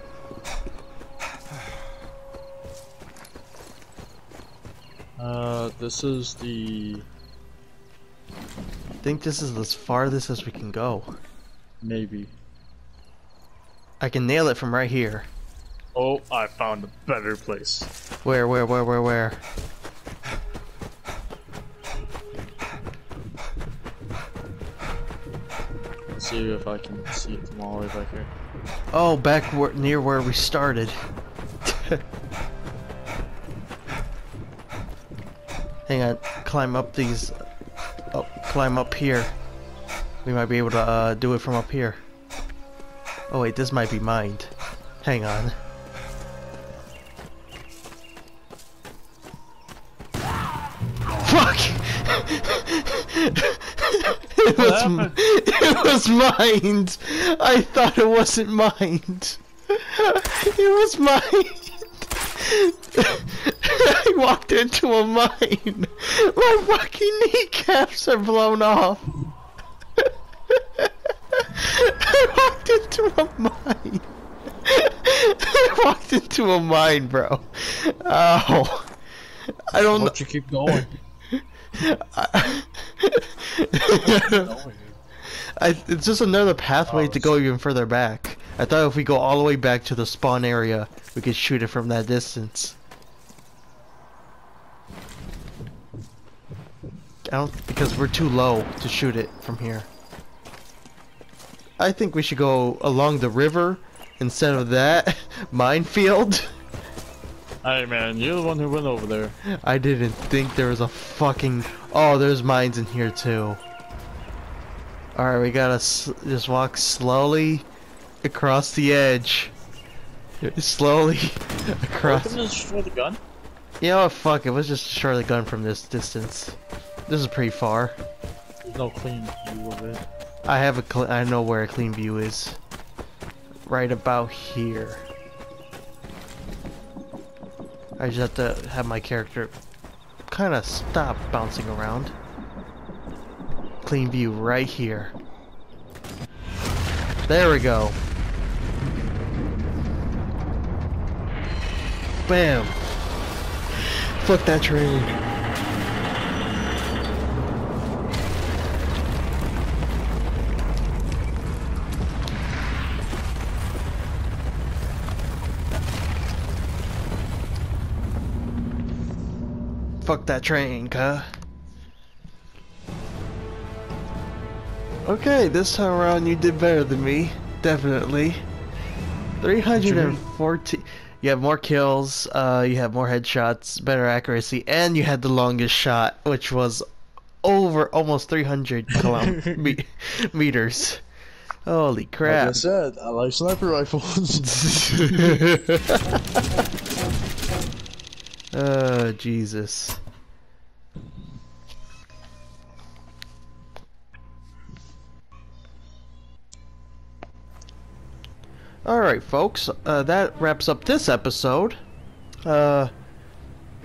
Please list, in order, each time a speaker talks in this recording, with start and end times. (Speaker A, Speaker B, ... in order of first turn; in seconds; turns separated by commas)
Speaker A: 5.2-7.1, Speaker B: 9.0-11.1, Speaker A: 11.8-12.3, Speaker B: 14.0-15.3, Speaker A: 15.9-17.9, Speaker B: 18.2-19.4, Speaker A: 26.1-28.3, Speaker B: 28.9-31.0, Speaker B: 31.6-32.0, Speaker B: 35.9-37.3, Speaker B: 38.1-39.3, Speaker B: 40.2-42.0, Speaker B: 43.3-45.5, Speaker B: 51.2-61.7, Speaker A: 54.5-55.2, Speaker B: 62.3-69.0, Speaker B: 70.0-74.0, Speaker B: 74.6-78.9, Speaker B: 79.5-80.2, Speaker A: 79.9-80.9, Speaker B: 80.7-84.5, Speaker A: 83.8-85.0, Speaker B: 85.3-92.8, Speaker A: 86.9-87.3, Speaker B: 97.2-99.9, Speaker B: 101.8-106.5, Speaker A: 107.6-109.4, Speaker B: 109.4-113.6, Speaker B: 115.2-117.7, Speaker B: 118.2-119.5, Speaker B: 120.4-122.4, Speaker A: 122.0-123.2, Speaker B: 123.8-128.0, Speaker A: 128.6-130.0, Speaker B: 130.4-132.6, Speaker B: 133.6-135.1, Speaker B: 138.0-139.5, Speaker B: 140.3-142.1, Speaker B: 143.8-145.1, Speaker B: 147.2-148.0, Speaker B: 152.2-152.8, Speaker B: 153.8-155.1, Speaker B: 170.0-171.3, Speaker B: 175.0-178.4, Speaker B: 179.4-186.8, Speaker A: 179.8-180.2, Speaker B: 187.4-191.0, Speaker A: 188.9-189.8, Speaker B: 191.6-192.6, Speaker A: 192.2-195.4, Speaker B: 194.5-196.4, Speaker B: 198.5-200.0, Speaker B: 208.8-211.8, Speaker B: 212.4-212.9